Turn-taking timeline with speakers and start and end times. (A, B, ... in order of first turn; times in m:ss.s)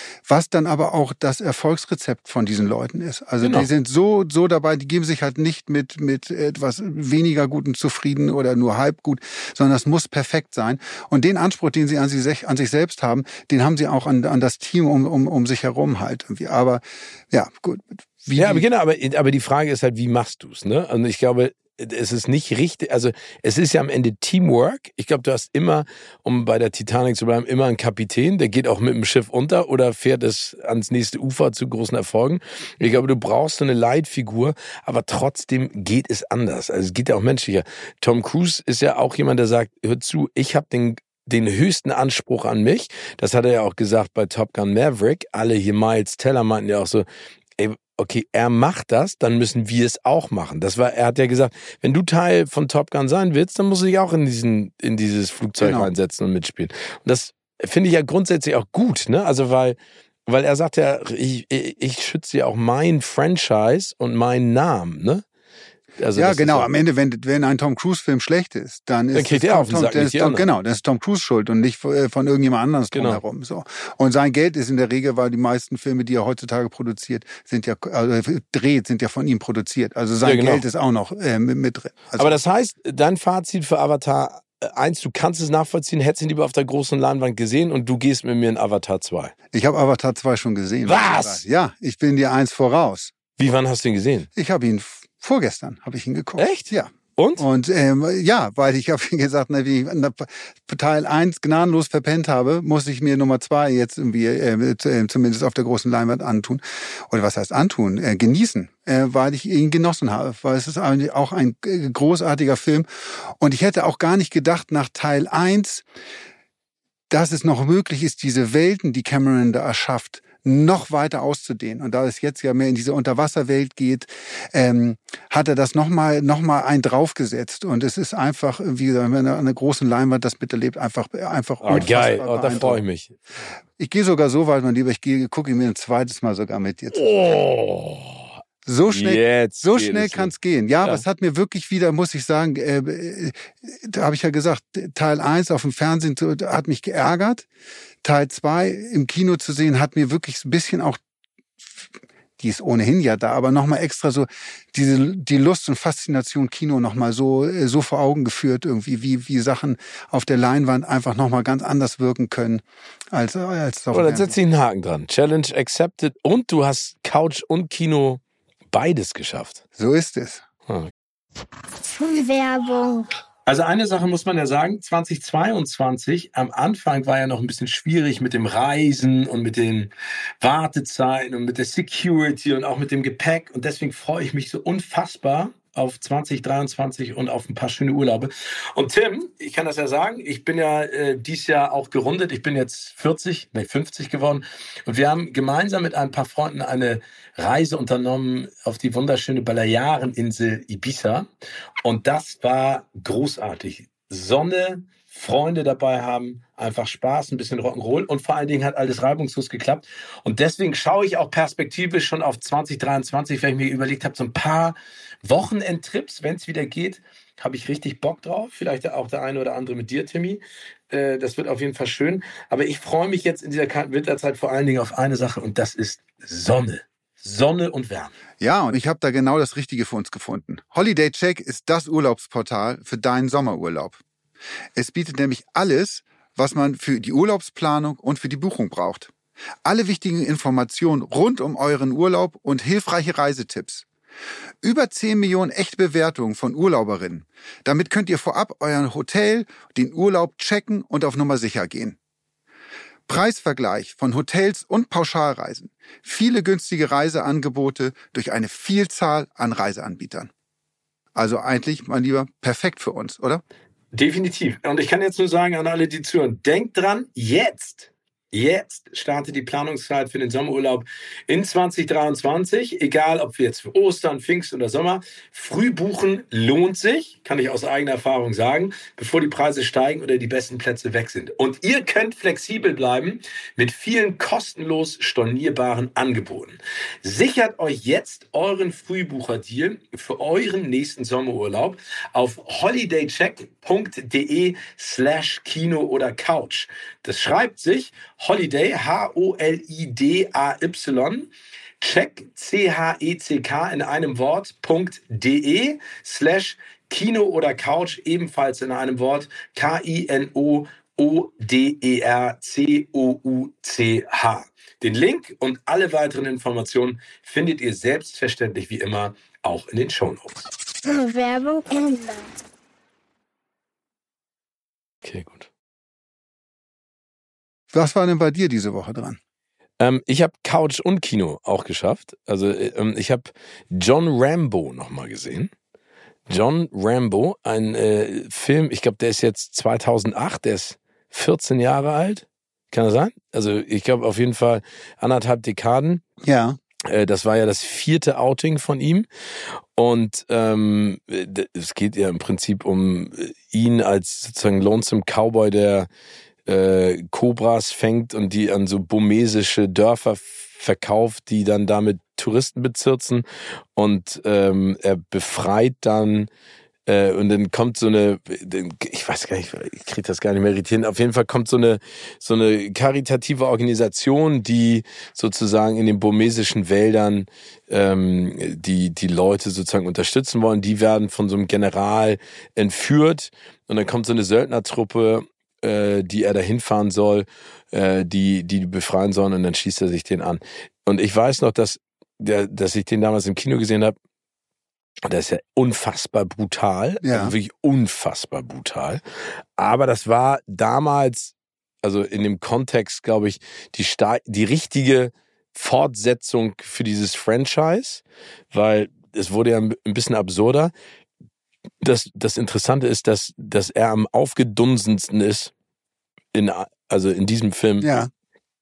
0:00.2-0:18.6 A
0:03.4-0:03.7 B
0:18.4-0:47.0 B
0:47.6-1:05.2 B
0:55.6-0:55.9 A
1:06.0-1:06.7 B
1:06.1-1:22.4 A
1:09.1-1:10.4 B
1:12.9-1:13.2 B
1:20.2-1:20.6 B
1:22.2-1:29.3 B
1:29.5-1:33.1 A
1:30.8-1:31.4 B
1:33.4-1:34.3 B
1:34.4-1:55.8 A
1:36.4-1:37.4 B
1:57.1-2:12.8 A
2:11.6-2:13.2 B
2:13.8-2:17.1 A
2:16.9-2:18.2 B
2:18.6-2:27.5 A
2:18.9-2:20.3 B
2:28.0-2:31.0 A
2:32.4-2:44.4 A
2:43.9-2:49.6 B
2:49.8-2:50.4 A
2:51.9-2:53.1 C
2:53.4-3:21.3 B
3:21.8-3:48.1 B
3:48.4-3:54.0 A
3:54.7-3:59.1 A
3:59.6-4:03.8 A
4:04.6-4:12.0 A
4:13.1-4:20.3 A
4:21.1-4:23.4 A
4:23.9-5:01.3 B
5:01.8-5:20.5 B
5:20.8-5:22.3 C
5:25.0-5:25.5 B
5:27.7-5:29.2 A
5:29.8-5:35.5 B
5:36.3-5:46.0 B
5:46.2-5:46.6 A
5:46.8-5:49.1 B
5:49.7-5:55.9 B
5:56.4-6:03.2 B
6:03.8-6:06.3 B
6:06.8-6:34.0 B
6:35.0-6:39.0 B
6:37.0-6:37.3 A
6:39.6-6:50.7 B
6:51.8-6:55.5 B
6:56.3-6:57.9 B
6:57.8-6:58.1 A